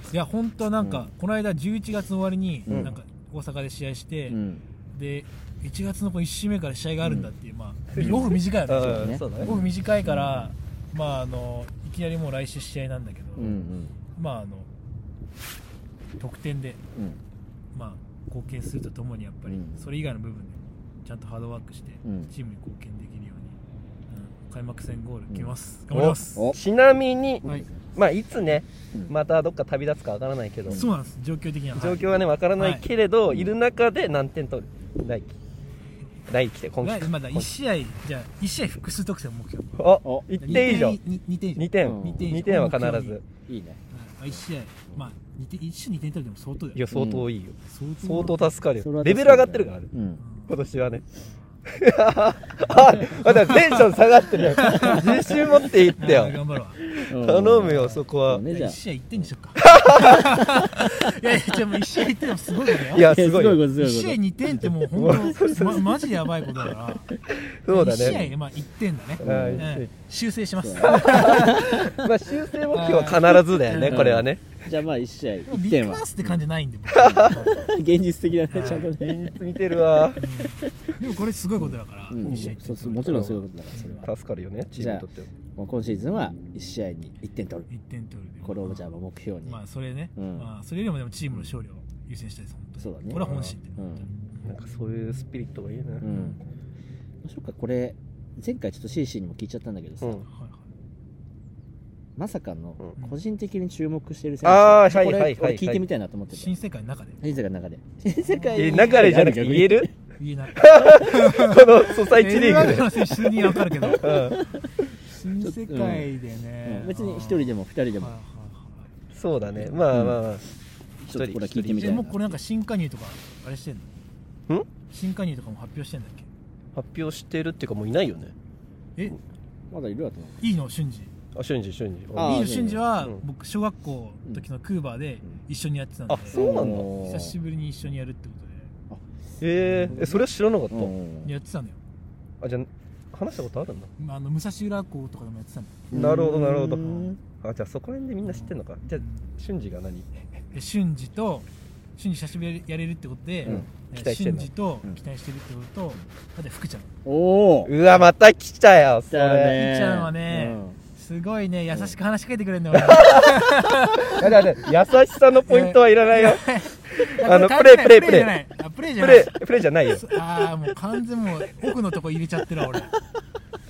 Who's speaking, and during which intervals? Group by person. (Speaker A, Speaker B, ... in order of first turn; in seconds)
Speaker A: 0.1-4.4, 4.9-13.6, 14.1-14.7, 16.2-16.8, 17.7-23.6, 24.1-26.5, 30.7-32.9, 36.8-43.2, 43.9-46.8, 47.6-48.5, 50.2-50.6, 52.6-55.4, 56.0-56.9, 57.7-63.1, 63.7-67.1, 67.7-72.0, 72.7-74.0, 75.5-77.7, 78.5-78.9, 80.2-84.1, 87.7-88.9, 89.4-94.5, 96.0-96.4, 100.3-100.6, 106.3-107.2, 108.2-109.2, 110.2-118.9, 121.8-123.9, 124.9-126.3, 130.4-131.1, 132.2-138.7, 139.6-140.0, 141.2-141.8, 144.0-145.9, 146.8-147.1, 148.2-149.3, 150.5-156.9, 159.5-164.4, 165.4-169.4, 169.9-172.9
Speaker B: 0.8-1.1, 2.6-2.9, 4.3-4.6, 7.0-7.3, 8.0-10.5, 13.4-13.9, 16.9-17.2, 19.5-19.9, 22.0-22.3, 40.0-40.8, 41.8-42.3, 43.5-43.8, 46.9-47.3, 48.8-50.2, 54.8-55.4, 56.9-59.3, 60.4-60.9, 62.9-64.6, 67.9-68.3, 69.2-69.7, 70.6-72.1, 73.7-76.4, 77.0-79.3, 81.6-84.1, 84.8-87.7, 88.4-89.6, 90.2-90.5, 92.8-93.2, 93.8-94.1, 96.0-96.4, 97.2-100.2, 102.2-106.5, 107.2-109.9, 113.7-114.7, 115.4-116.1, 116.6-118.1, 119.9-120.2, 121.0-122.4, 129.7-130.4, 132.1-132.8, 136.3-137.4, 139.9-141.3, 145.9-147.2, 157.0-157.7, 159.1-160.8
Speaker C: 2.7-2.9, 7.9-9.5, 25.9-30.8, 31.7-35.3, 36.3-37.5, 39.8-41.0, 41.5-43.2, 46.7-49.9, 50.5-51.0, 51.6-56.4, 56.9-58.4, 59.6-60.3, 62.9-63.6, 64.7-66.0, 67.4-68.2, 69.2-69.9, 70.8-74.6, 76.9-77.5, 78.8-80.2, 82.2-83.4, 84.0-85.3, 93.1-93.5, 94.4-96.1, 104.4-105.8, 108.5-109.9, 110.5-114.4, 119.1-120.4, 121.1-122.0, 126.7-128.3, 131.3-133.2, 136.1-136.9, 139.4-140.9, 142.4-143.9, 145.9-150.1, 153.4-154.5, 157.7-159.6, 162.7-166.4, 167.0-168.3, 169.0-170.0